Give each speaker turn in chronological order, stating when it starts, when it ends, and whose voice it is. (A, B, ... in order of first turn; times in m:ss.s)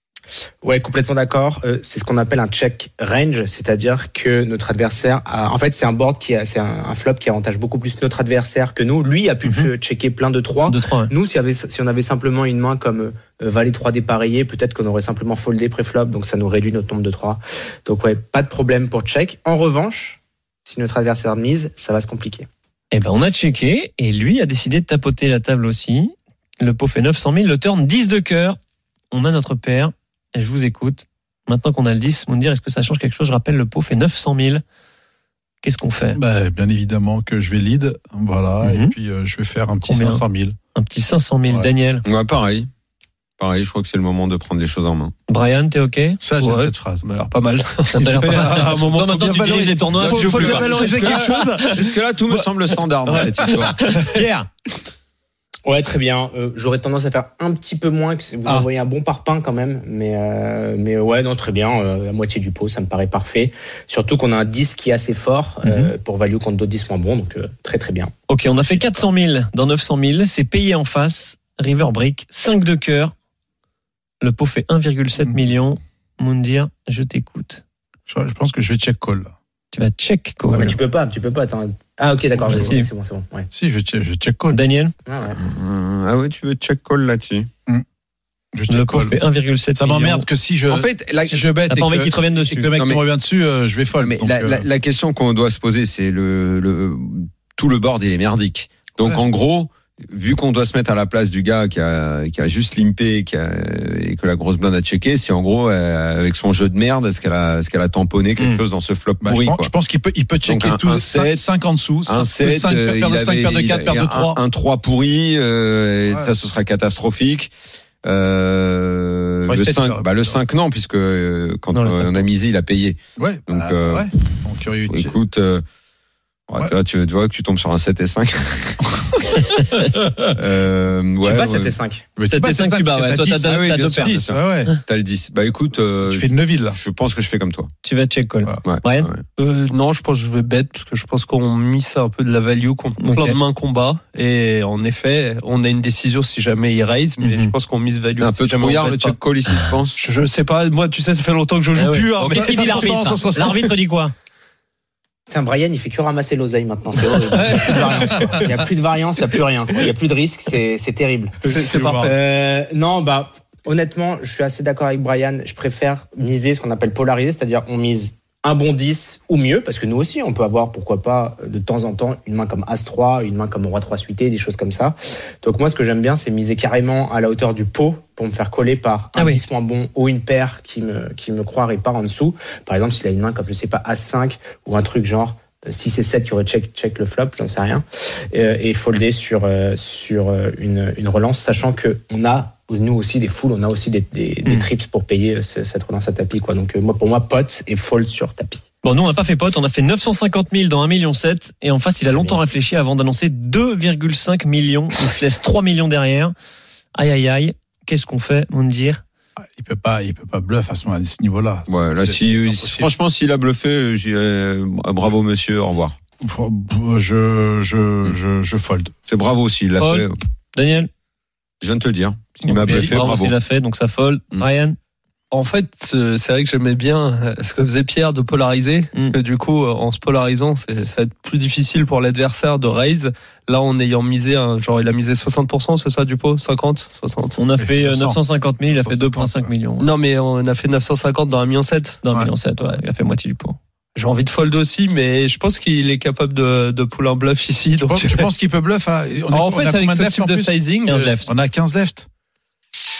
0:00.6-0:22.5 A
0:10.7-0:11.1 B
0:22.9-0:28.6 B
0:29.1-0:34.6 B
0:35.6-0:36.2 B
0:36.1-0:40.6 C
0:38.6-0:39.0 B
0:39.8-0:42.0 B
0:42.0-0:42.7 D
0:43.4-0:45.1 D
0:45.3-0:46.2 B
0:46.2-0:47.0 C
0:46.4-0:51.8 E
0:48.0-0:52.4 B
0:50.0-0:53.8 D
0:53.1-0:54.5 B
0:55.7-1:08.1 A
1:05.6-1:05.9 B
1:08.3-1:13.1 B
1:14.2-1:17.6 B
1:18.1-1:19.3 C
1:19.7-1:20.8 B
1:20.5-1:23.5 A
1:22.4-1:22.9 B
1:22.5-1:22.7 C
1:23.5-1:24.6 C
1:24.5-1:24.9 B
1:25.1-1:25.4 A
1:25.3-1:27.5 D
1:28.5-1:29.2 C
1:28.7-1:30.3 B
1:29.8-1:34.7 C
1:30.7-1:31.5 D
1:31.7-1:32.7 B
1:32.8-1:33.0 D
1:34.0-1:49.7 D
1:49.2-1:54.4 C
1:50.5-1:51.5 D
1:52.1-1:57.5 D
1:58.0-2:04.1 D
1:59.5-2:00.4 C
2:01.7-2:02.3 B
2:03.2-2:05.2 C
2:04.9-2:05.6 D
2:06.5-2:08.9 D
2:10.4-2:11.8 D
2:11.2-2:12.0 A
2:12.2-2:14.7 C
2:12.3-2:14.2 B
2:13.4-2:17.7 D
2:16.0-2:16.8 C
2:17.8-2:19.1 B
2:18.6-2:19.2 D
2:19.4-2:29.2 E
2:23.0-2:23.4 B
2:27.2-2:27.5 B
2:28.2-2:30.0 D
2:30.0-2:33.6 E
2:31.7-2:34.1 B
2:32.2-2:33.7 C
2:35.3-2:41.4 A
2:37.4-2:38.4 E
2:41.4-2:42.1 C
2:41.5-2:42.2 E
2:42.0-3:18.6 A
2:59.2-2:59.4 B
3:18.8-3:26.3 B
3:22.1-3:22.4 A
3:27.0-3:29.0 B
3:29.4-3:32.9 C
3:31.7-3:36.0 D
3:36.2-3:38.9 C
3:39.1-3:40.2 D
3:39.8-3:40.9 B
3:41.6-3:43.4 D
3:42.4-3:44.8 B
3:42.6-3:43.0 C
3:45.3-3:57.4 E
3:57.4-3:59.9 B
3:57.6-3:58.2 C
3:58.7-3:59.5 C
3:59.8-4:02.0 E
4:02.0-4:03.6 B
4:04.0-4:08.3 E
4:07.9-4:10.6 C
4:09.3-4:11.2 E
4:10.9-4:11.3 B
4:11.2-4:12.1 C